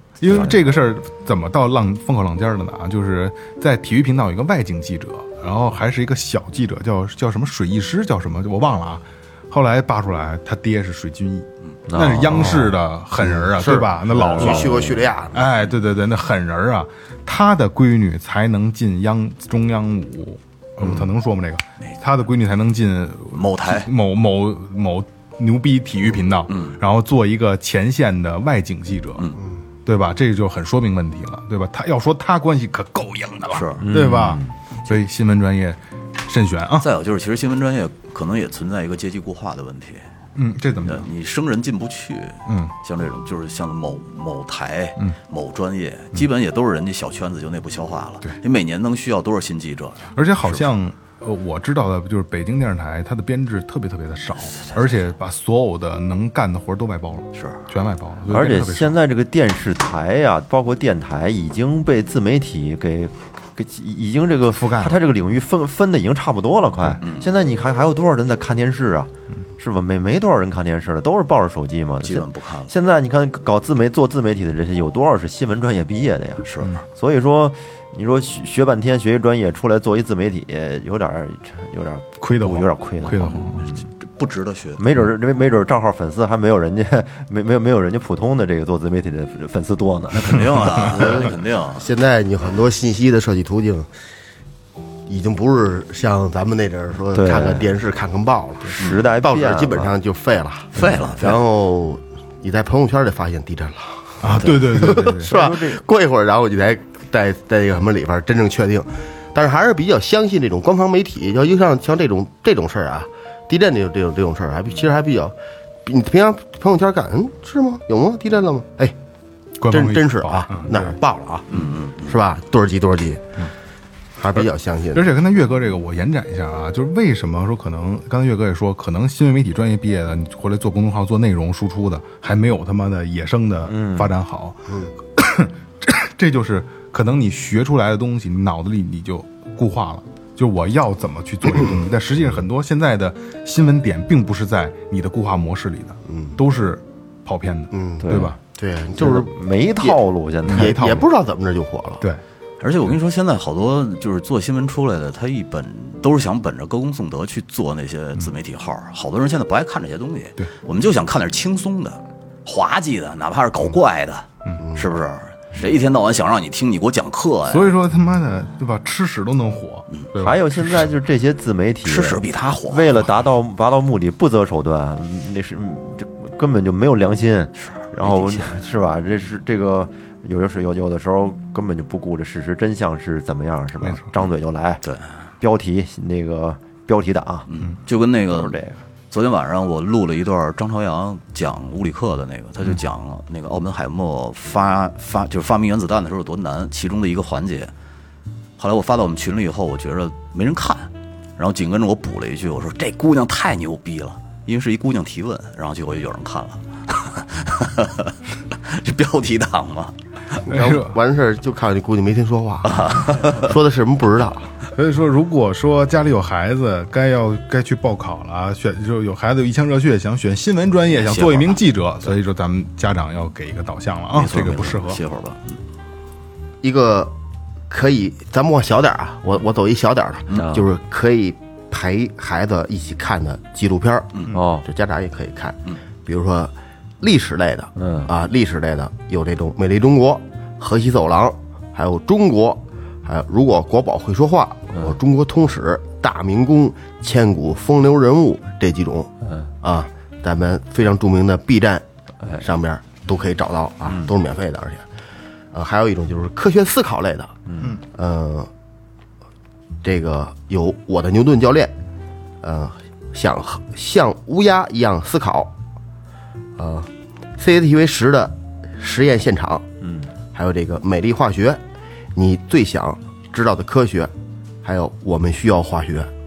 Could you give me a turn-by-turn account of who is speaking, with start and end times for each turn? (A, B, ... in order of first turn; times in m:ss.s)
0:00.2-0:29.3 A
0:11.9-0:12.8 B
0:13.2-0:15.5 C
0:14.1-0:15.1 B
0:23.3-0:23.9 D
0:26.5-0:26.8 D
0:29.9-0:36.9 A
0:33.5-0:33.9 D
0:33.8-0:34.5 B
0:36.8-0:40.1 D
0:40.4-0:41.1 A
0:40.8-0:50.6 D
0:42.5-0:42.7 A
0:50.2-0:59.0 A
0:57.4-0:57.6 D
0:58.3-1:23.8 B
1:04.5-1:05.0 A
1:07.0-1:07.3 D
1:12.0-1:12.7 D
1:16.4-1:16.8 D
1:22.2-1:23.6 A
1:23.4-1:24.8 D
1:24.8-1:31.0 B
1:30.2-1:31.9 D
1:31.1-1:33.9 C
1:35.1-1:59.0 C
1:37.1-1:37.7 B
1:38.7-1:39.9 B
1:40.7-1:41.4 D
1:44.2-1:45.3 A
1:45.2-1:45.8 B
1:59.6-2:01.0 A
1:59.7-2:03.5 C
2:01.5-2:02.2 D
2:04.2-2:05.0 C
2:04.4-2:28.4 A
2:13.7-2:14.1 B
2:26.1-2:26.4 C
2:27.7-2:29.3 C
2:28.0-2:28.4 B
2:29.0-2:31.0 B
2:29.8-2:32.0 C
2:30.5-2:31.1 A
2:32.6-2:47.7 D
2:47.5-2:50.9 A
2:50.2-3:04.8 B
2:51.8-2:53.1 D
2:57.6-2:58.5 D
3:03.8-3:04.1 A
3:05.4-3:07.5 B
3:07.5-3:08.6 D
3:08.3-3:08.8 B
3:09.1-3:17.7 D
3:18.6-3:30.0 D
3:30.5-3:34.5 C
3:30.5-3:31.0 A
3:32.7-3:33.4 D
3:34.7-3:45.0 A
3:40.9-3:41.6 D
3:44.1-3:45.6 D
3:46.6-3:47.1 C
3:47.7-3:54.1 C
3:50.3-3:50.7 B
3:54.3-3:54.6 B
3:54.6-4:11.8 C
3:57.8-3:58.1 B
4:09.2-4:09.5 B
4:12.4-4:14.8 C
4:15.5-4:18.5 C
4:17.5-4:17.8 B
4:19.8-4:21.7 C
4:22.4-4:25.5 C
4:26.6-4:29.7 C
4:29.8-4:30.1 B
4:30.3-4:31.6 C
4:32.2-4:34.1 C
4:34.6-4:36.1 C